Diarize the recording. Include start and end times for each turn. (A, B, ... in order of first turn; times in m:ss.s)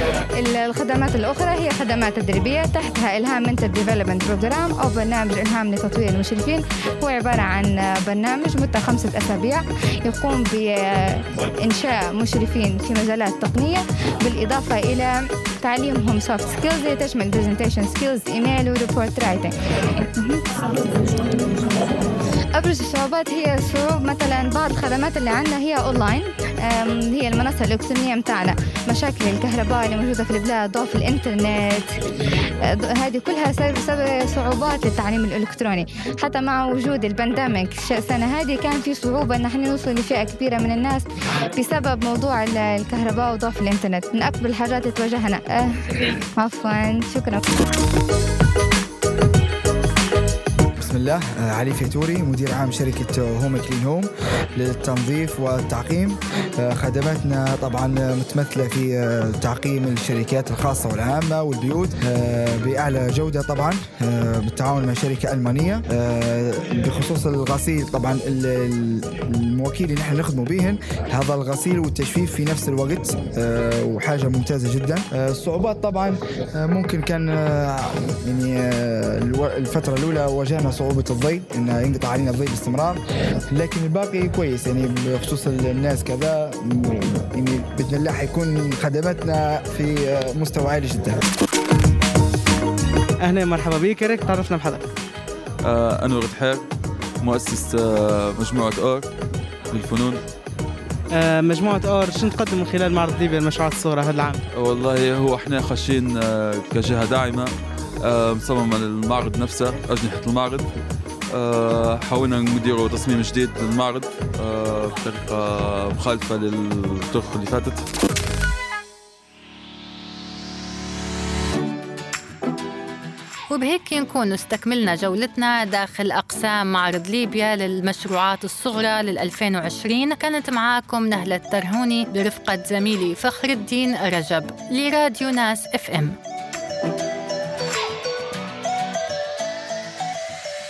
0:00.4-0:20.4 A
0:22.6-0:32.0 A
0:32.7-0:47.4 A
0:50.8-1:23.0 B
1:23.5-1:31.2 B
1:33.2-1:34.9 C
1:35.6-1:36.6 D
1:37.2-1:39.1 D
1:39.7-1:40.2 D
1:41.1-1:44.4 C
1:44.5-1:47.5 D
1:48.0-1:50.8 D
1:51.3-1:57.8 D
2:03.5-2:16.2 E